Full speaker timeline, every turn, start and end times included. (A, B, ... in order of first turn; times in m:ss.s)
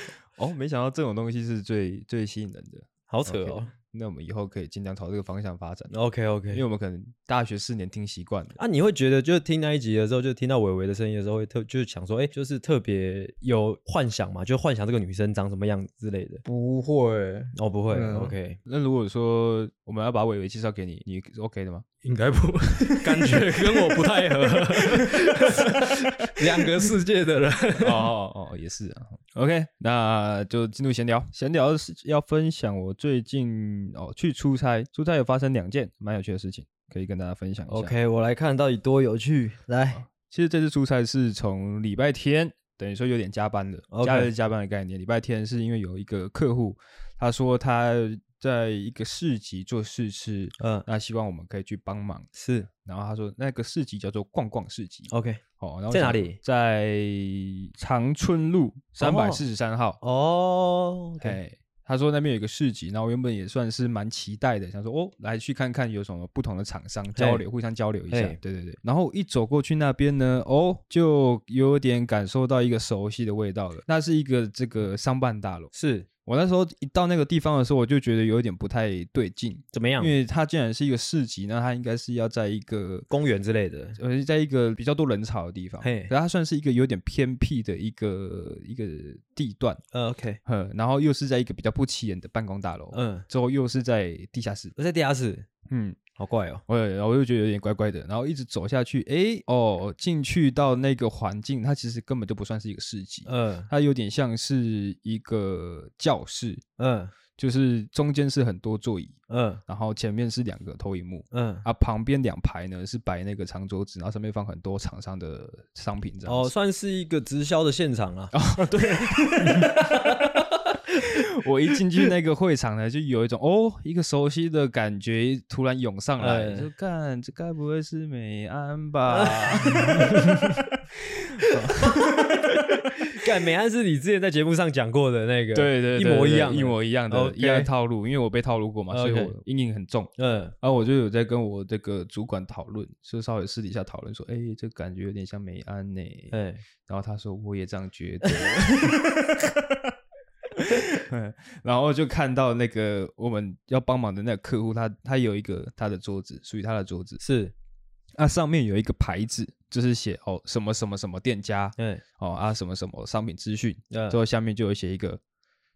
0:00.4-0:05.9 A
0:03.1-0:03.7 B
0:05.9-0:06.6 B
0:06.5-0:08.6 A
0:08.6-0:16.4 B
0:16.4-0:18.3 C
0:17.6-0:18.6 B
0:18.7-0:21.8 A
0:22.0-0:28.1 C
0:24.6-0:25.8 A
0:27.8-0:37.9 A
0:37.7-0:40.0 B
0:39.9-0:52.3 A
0:43.9-0:44.3 B
0:50.6-0:50.9 B
0:52.4-0:52.7 B
0:52.8-1:00.0 A
0:55.1-0:56.4 B
0:59.0-0:59.4 B
1:00.0-1:01.4 B
1:01.2-1:15.7 A
1:07.2-1:07.4 B
1:08.1-1:08.4 B
1:15.7-1:16.1 B
1:16.2-1:23.1 A
1:19.7-1:20.1 B
1:23.1-1:24.0 B
1:24.0-1:29.8 A
1:25.8-1:26.1 B
1:29.9-1:30.4 B
1:30.4-1:34.8 A
1:32.9-1:33.3 B
1:34.8-1:35.5 B
1:35.7-1:36.0 A
1:36.2-1:36.6 B
1:36.7-1:46.6 A
1:43.3-1:43.7 B
1:46.8-1:47.1 B
1:47.4-1:56.5 A
1:49.3-1:49.6 B
1:51.3-1:51.6 B
1:56.3-1:58.4 B
1:58.3-2:00.4 A
1:58.9-2:01.2 B
2:01.0-2:12.6 A
2:06.2-2:06.7 B
2:09.1-2:10.6 B
2:11.4-2:17.7 B
2:15.5-2:26.4 A
2:18.9-2:19.4 B
2:20.2-2:20.6 B
2:26.3-2:26.6 B
2:26.9-2:29.9 A
2:28.5-2:28.9 B
2:30.6-2:37.2 A
2:37.2-2:37.5 B
2:38.2-2:45.2 A
2:41.8-2:42.0 B
2:43.9-2:44.2 B